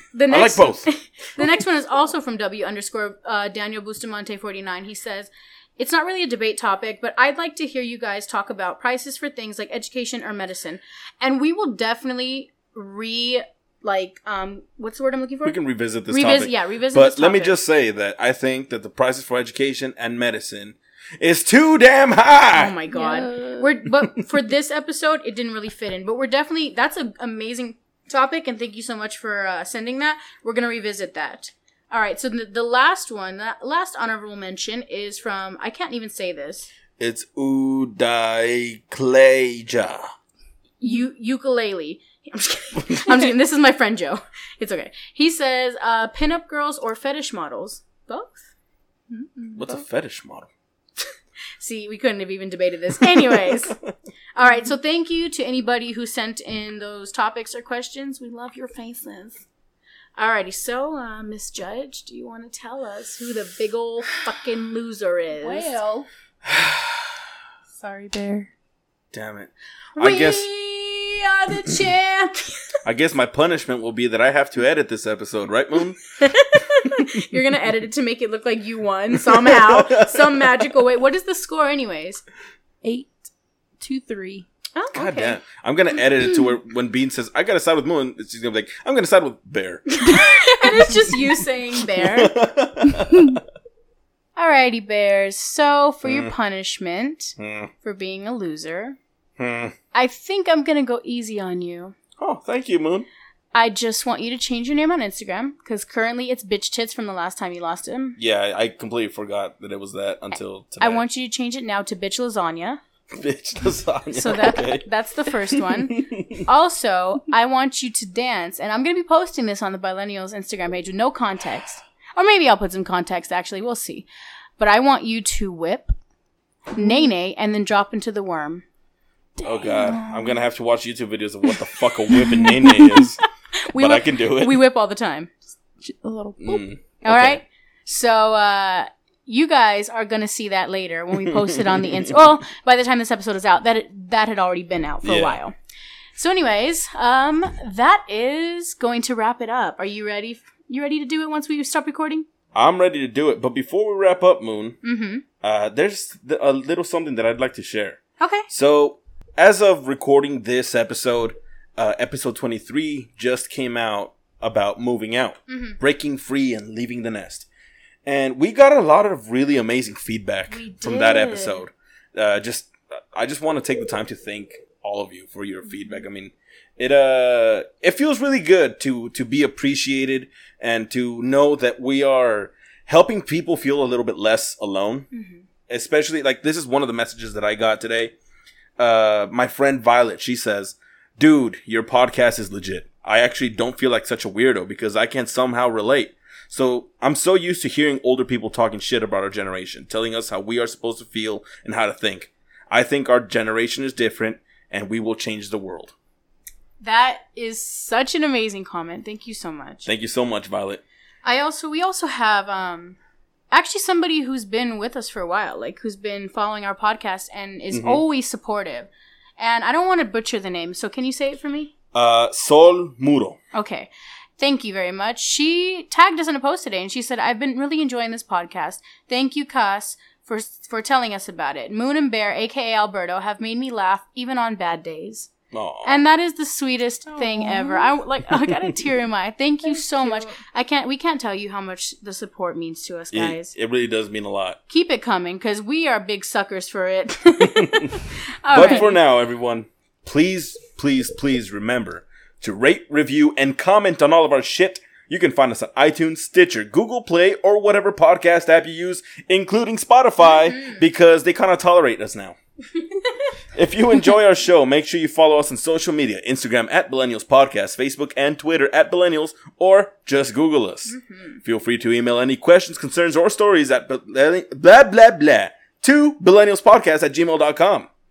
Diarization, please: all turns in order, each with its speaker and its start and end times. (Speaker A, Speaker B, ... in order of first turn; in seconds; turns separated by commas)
Speaker A: 0.1-15.6, Speaker B: 0.3-0.9, Speaker B: 15.4-22.7, Speaker A: 16.1-17.6, Speaker A: 22.5-36.7, Speaker C: 22.9-23.7, Speaker B: 37.0-40.1, Speaker A: 40.8-48.5, Speaker C: 49.1-49.8, Speaker B: 49.5-50.5, Speaker A: 51.6-53.8, Speaker B: 53.1-53.9, Speaker A: 54.4-59.4, Speaker A: 60.2-65.7, Speaker C: 65.4-66.1, Speaker B: 66.4-67.2, Speaker C: 67.7-68.5, Speaker B: 69.1-70.5, Speaker A: 70.0-72.7, Speaker B: 72.8-76.0, Speaker A: 76.2-82.2, Speaker B: 79.2-80.7, Speaker C: 82.8-84.5, Speaker A: 84.8-85.4, Speaker B: 84.9-89.9, Speaker A: 89.9-92.3, Speaker C: 90.0-91.1, Speaker B: 91.9-93.4, Speaker C: 92.8-93.4, Speaker A: 94.4-99.0, Speaker B: 96.0-96.3, Speaker B: 97.4-97.7, Speaker B: 99.4-99.8, Speaker A: 99.9-102.0, Speaker B: 102.2-103.1, Speaker A: 103.5-108.2, Speaker B: 108.2-111.0, Speaker A: 110.8-112.8, Speaker B: 113.1-116.5, Speaker A: 114.1-124.1, Speaker A: 124.6-125.9, Speaker A: 126.7-128.6, Speaker C: 126.7-127.1, Speaker B: 129.4-133.2, Speaker C: 129.4-130.4, Speaker C: 132.1-133.1, Speaker A: 133.7-135.3, Speaker B: 133.7-134.6, Speaker C: 135.8-136.7, Speaker B: 136.4-137.4, Speaker A: 137.0-145.5, Speaker B: 141.2-142.2, Speaker B: 145.0-145.4, Speaker A: 146.2-152.2, Speaker B: 152.5-154.8, Speaker A: 154.8-155.2, Speaker B: 155.4-167.4, Speaker A: 158.2-158.5, Speaker A: 165.5-165.8, Speaker B: 168.0-185.1, Speaker A: 170.5-171.6, Speaker A: 185.1-185.4, Speaker B: 185.7-188.1, Speaker B: 188.8-205.9, Speaker A: 206.8-209.9, Speaker B: 209.8-210.8, Speaker A: 211.2-213.0, Speaker A: 213.5-221.7, Speaker B: 217.7-218.0, Speaker B: 221.9-223.4, Speaker A: 223.5-235.3, Speaker B: 235.5-236.0, Speaker A: 235.8-243.5, Speaker C: 237.1-237.9, Speaker B: 238.5-238.7, Speaker C: 239.6-240.4, Speaker B: 243.1-244.6, Speaker A: 244.7-248.9, Speaker B: 247.6-247.8, Speaker B: 248.5-262.4, Speaker C: 248.6-248.9, Speaker A: 260.3-260.8, Speaker B: 263.5-277.9, Speaker A: 270.9-271.4